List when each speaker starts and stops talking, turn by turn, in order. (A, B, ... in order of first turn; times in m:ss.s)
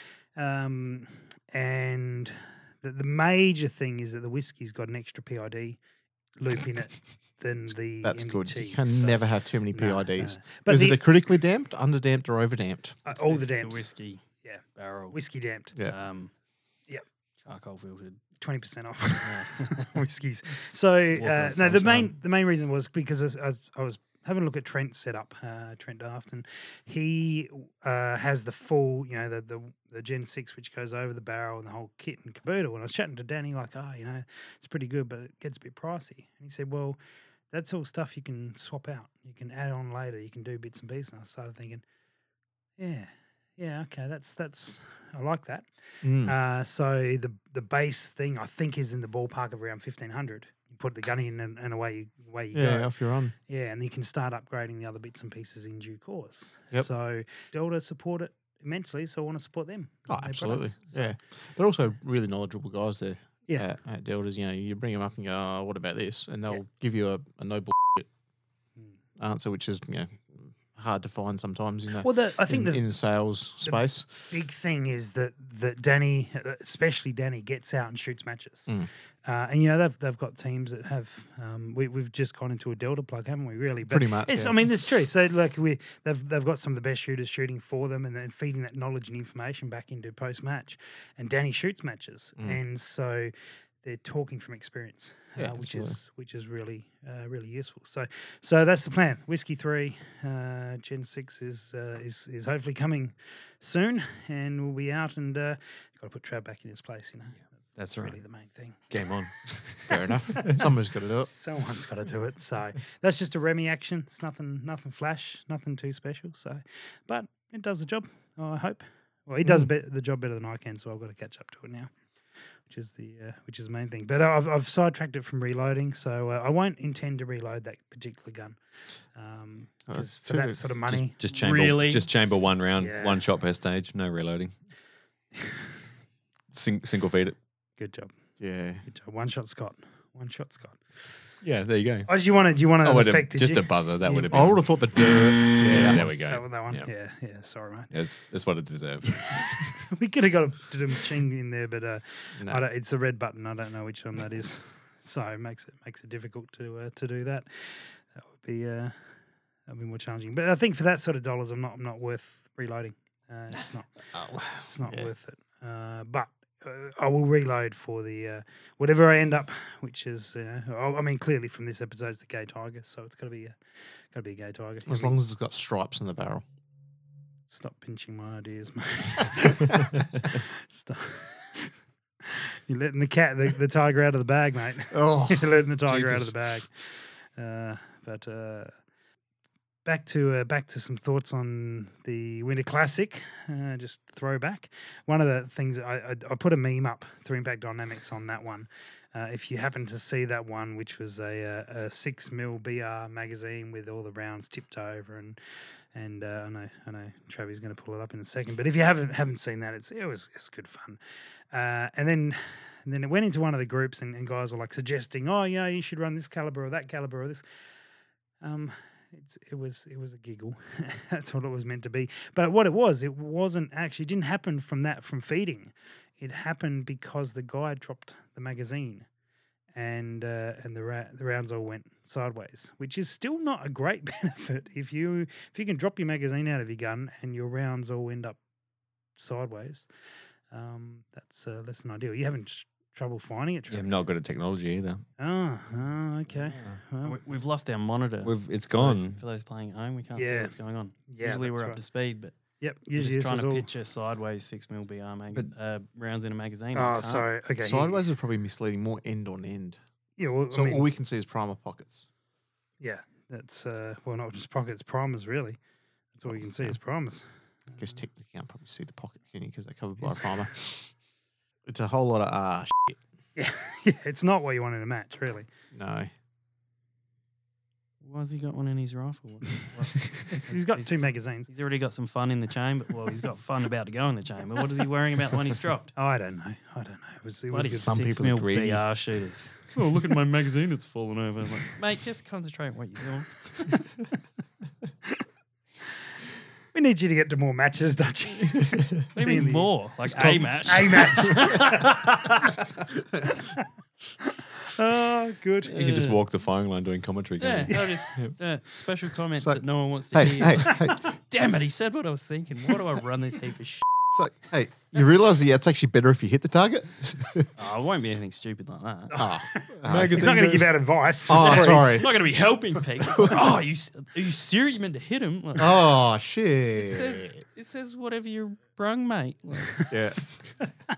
0:00.3-0:05.8 A
0:06.4-0:11.0 A
0:08.0-0:13.0 B
0:13.0-0:13.8 A
0:13.1-0:15.2 C
0:14.4-0:15.7 A
0:15.9-0:16.3 C
0:17.4-0:18.2 C
0:18.4-0:37.0 A
0:19.2-0:20.0 C
0:37.5-0:41.8 A
0:42.8-0:52.9 A
0:46.0-0:46.3 B
0:52.5-0:53.3 B
0:53.4-1:01.1 A
1:00.1-1:08.1 B
1:09.2-1:14.3 B
1:12.0-1:12.8 A
1:13.6-1:18.7 A
1:19.2-1:33.3 A
1:23.8-1:24.7 B
1:33.8-1:48.9 A
1:35.4-1:36.0 B
1:47.8-1:48.2 D
1:48.9-1:50.6 D
1:49.9-1:51.3 B
1:51.4-2:01.9 A
2:02.6-2:08.6 A
2:09.1-2:11.1 A
2:09.9-2:10.6 B
2:10.9-2:14.5 D
2:11.2-2:12.1 C
2:12.8-2:13.2 A
2:16.5-2:17.4 D
2:17.8-2:18.1 A
2:18.4-2:18.8 B
2:18.8-2:21.0 A
2:21.4-2:22.1 D
2:22.1-2:24.3 A
2:22.8-2:24.6 D
2:24.3-2:26.1 B
2:25.4-2:26.9 D
2:26.2-2:27.9 A
2:27.9-2:29.9 D
2:29.9-2:39.0 A
2:32.4-2:32.6 B
2:39.7-2:53.6 A
2:44.1-2:45.1 B
2:54.1-2:55.2 A
2:54.8-2:56.4 B
2:57.5-3:01.7 A
3:02.2-3:08.7 A
3:04.9-3:06.3 B
3:09.8-3:25.4 A
3:25.9-3:31.0 A
3:31.5-3:37.4 A
3:38.4-3:49.1 A
3:49.7-3:58.4 A
3:59.2-3:59.9 A
4:00.5-4:03.9 A
4:03.7-4:05.0 D
4:05.2-4:07.2 A
4:06.4-4:06.8 D
4:07.0-4:12.3 C
4:08.2-4:09.2 D
4:10.2-4:10.5 A
4:11.1-4:11.8 A
4:12.6-4:13.7 A
4:12.9-4:17.3 C
4:16.7-4:18.0 A
4:17.6-4:19.8 B
4:20.2-4:20.9 A
4:20.5-4:22.0 B
4:22.8-4:25.6 A
4:26.1-4:28.0 A
4:26.2-4:26.7 B
4:27.8-4:30.9 B
4:30.0-4:30.3 A
4:31.6-4:33.0 B
4:33.4-4:35.5 A
4:35.7-4:36.1 B
4:38.0-4:45.9 C
4:40.3-4:41.5 A
4:46.0-4:48.1 A
4:47.5-4:53.8 C
4:47.8-4:48.8 B
4:56.7-5:02.3 A
4:59.1-5:01.8 C
5:04.2-5:05.8 A
5:05.7-5:08.3 D
5:05.7-5:06.2 C
5:07.4-5:13.8 C
5:10.1-5:11.1 B
5:14.1-5:17.5 B
5:17.6-5:19.1 C
5:19.1-5:22.0 A
5:19.1-5:20.2 B
5:19.8-5:20.7 D
5:21.2-5:22.1 B
5:21.3-5:25.8 C
5:23.1-5:23.4 B
5:25.6-5:27.4 B
5:26.8-5:29.9 C
5:29.9-5:30.5 B